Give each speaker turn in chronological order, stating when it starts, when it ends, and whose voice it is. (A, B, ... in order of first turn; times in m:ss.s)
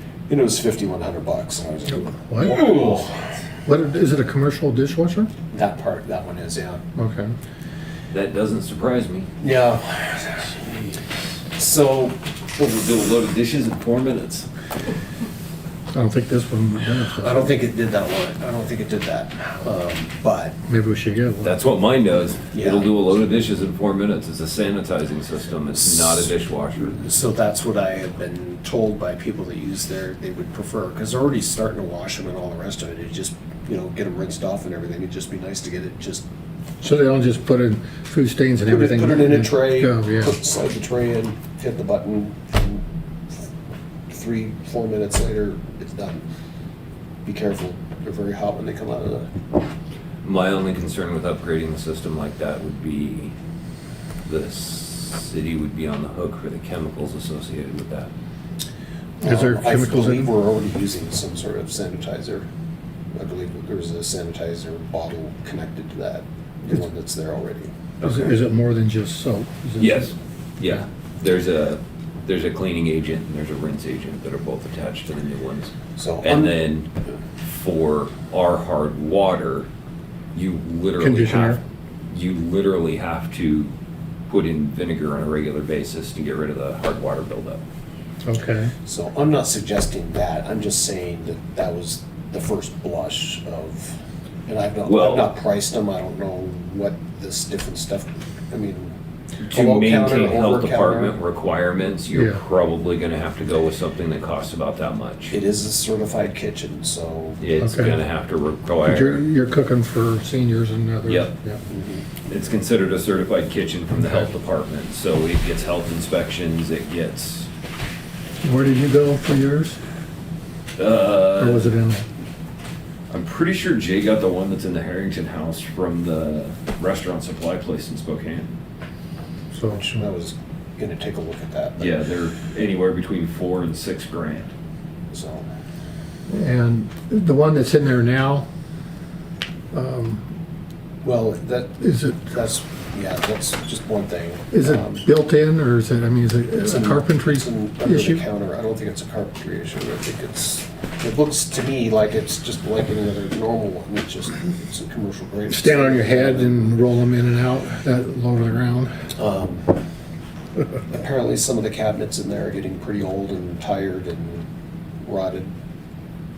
0:00.3-0:03.4 A
0:01.9-0:02.6 B
0:03.6-0:05.3 B
0:05.5-0:06.8 A
0:07.0-0:07.3 B
0:08.1-0:09.3 C
0:09.4-0:10.9 A
0:11.5-0:12.2 A
0:12.6-0:14.5 C
0:15.9-0:17.5 B
0:17.1-0:20.6 A
0:20.7-0:21.5 B
0:21.4-0:27.0 C
0:22.5-0:22.9 A
0:25.8-0:36.2 A
0:36.8-0:40.3 B
0:38.6-0:42.8 A
0:44.1-0:46.2 A
0:47.2-0:49.3 A
0:50.2-0:53.3 C
0:54.2-0:58.1 C
0:59.2-1:02.5 A
0:59.2-1:00.3 B
1:03.1-1:07.7 A
1:08.0-1:08.3 C
1:08.0-1:10.1 B
1:09.8-1:16.9 C
1:16.0-1:16.6 A
1:17.4-1:19.7 C
1:20.3-1:23.7 C
1:21.0-1:21.6 B
1:24.3-1:27.6 C
1:28.2-1:28.7 B
1:28.8-1:38.9 A
1:34.8-1:35.3 C
1:39.4-1:45.3 C
1:39.5-1:41.2 A
1:42.1-1:42.4 B
1:45.3-1:47.4 A
1:47.4-1:49.2 C
1:47.6-1:48.0 B
1:48.8-1:51.6 B
1:51.0-1:51.3 C
1:51.7-1:52.1 A
1:52.2-1:57.5 C
1:58.4-1:59.8 B
2:00.8-2:01.7 C
2:01.4-2:02.0 B
2:03.1-2:08.5 C
2:09.5-2:10.0 B
2:09.7-2:12.0 A
2:11.8-2:14.5 C
2:15.1-2:15.4 A
2:16.3-2:18.5 B
2:19.7-2:20.3 B
2:21.0-2:25.0 A
2:21.8-2:22.2 B
2:24.5-2:28.2 B
2:26.6-2:36.7 A
2:35.5-2:39.0 B
2:39.1-2:39.7 A
2:40.9-2:44.5 A
2:45.0-2:45.5 A